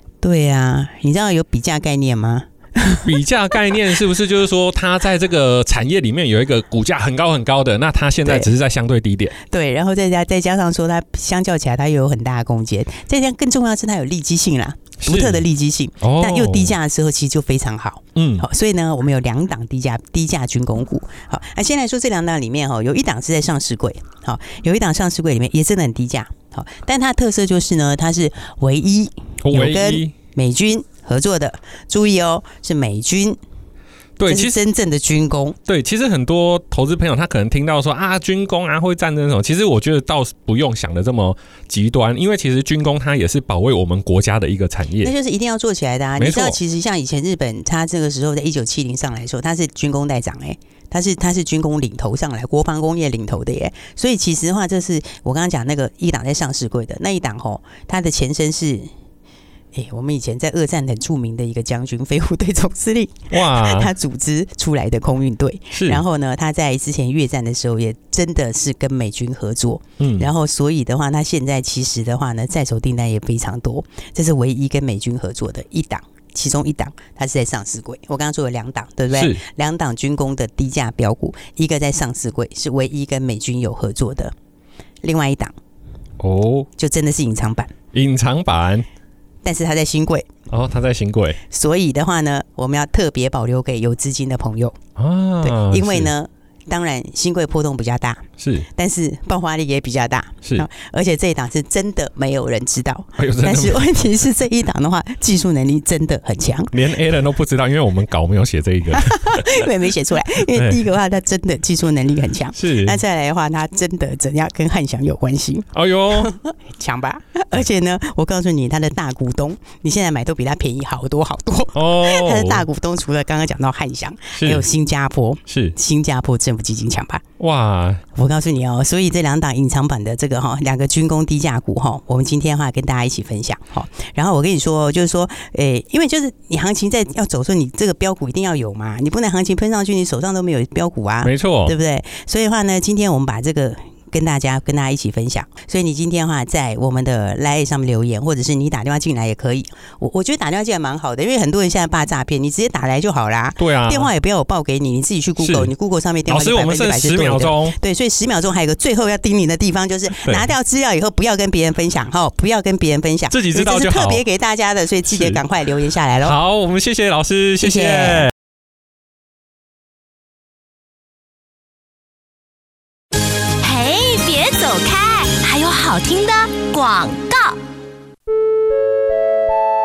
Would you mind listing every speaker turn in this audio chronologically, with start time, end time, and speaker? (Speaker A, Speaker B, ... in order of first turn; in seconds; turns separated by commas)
Speaker A: 0.2-3.1, Speaker B: 3.0-9.4, Speaker A: 9.5-33.4, Speaker B: 15.0-15.4, Speaker B: 16.0-16.8, Speaker B: 18.2-18.5, Speaker B: 29.4-30.1, Speaker B: 34.2-34.6, Speaker A: 34.3-35.6, Speaker B: 35.7-45.1, Speaker A: 45.0-58.9, Speaker B: 46.2-46.6, Speaker A: 59.7-84.3, Speaker B: 63.3-63.9, Speaker B: 65.7-66.0, Speaker B: 70.0-70.3, Speaker B: 79.1-79.4, Speaker A: 85.0-85.5, Speaker B: 86.2-86.7, Speaker A: 86.8-87.7, Speaker B: 87.9-88.9, Speaker A: 89.4-90.3, Speaker B: 90.5-91.4, Speaker A: 91.5-94.8, Speaker B: 95.0-96.1, Speaker A: 95.4-106.7, Speaker B: 98.4-98.7, Speaker B: 103.2-103.9, Speaker B: 106.7-109.7, Speaker A: 108.9-127.2, Speaker B: 110.4-110.8, Speaker B: 112.5-113.0, Speaker B: 115.7-116.3, Speaker B: 121.8-122.7, Speaker B: 124.4-124.7, Speaker B: 125.5-125.8, Speaker B: 127.4-128.0, Speaker A: 128.2-166.4, Speaker B: 141.2-141.8, Speaker B: 153.6-154.1, Speaker B: 155.4-155.7, Speaker B: 156.3-157.8, Speaker B: 160.2-160.5, Speaker B: 163.3-164.2, Speaker B: 165.1-165.4, Speaker B: 166.2-168.3, Speaker A: 167.6-168.3, Speaker C: 173.6-177.6